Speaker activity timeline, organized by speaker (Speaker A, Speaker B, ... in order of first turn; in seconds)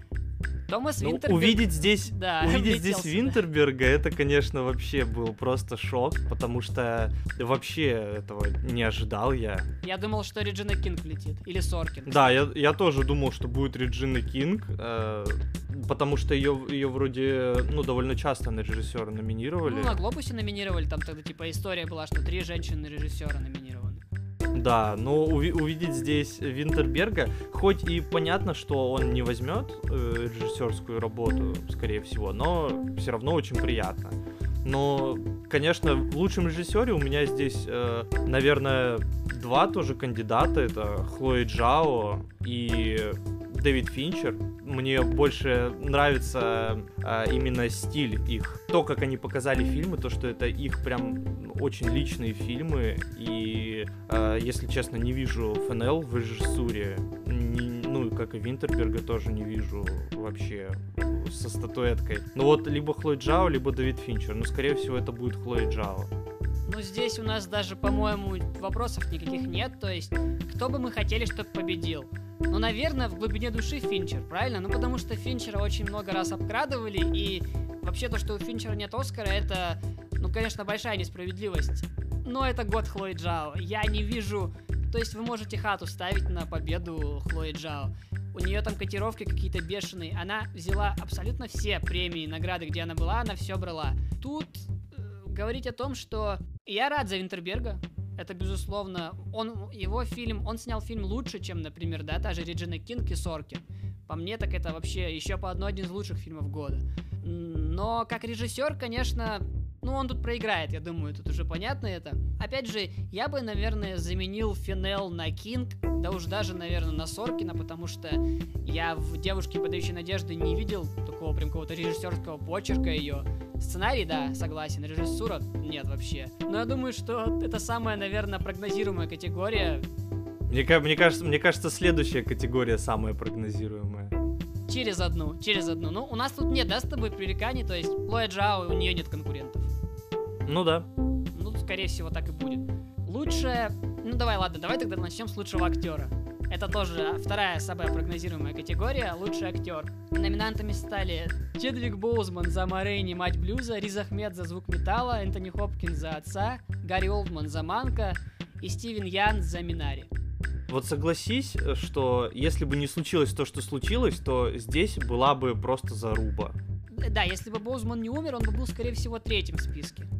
Speaker A: 0.7-3.4, 9.8-12.4, 19.6-24.0, 66.7-129.9, 134.7-139.7, 141.3-160.1, 166.9-170.1
Speaker B: 1.0-9.7, 12.1-20.0, 24.5-66.1, 130.5-134.1, 140.5-140.9, 160.7-166.6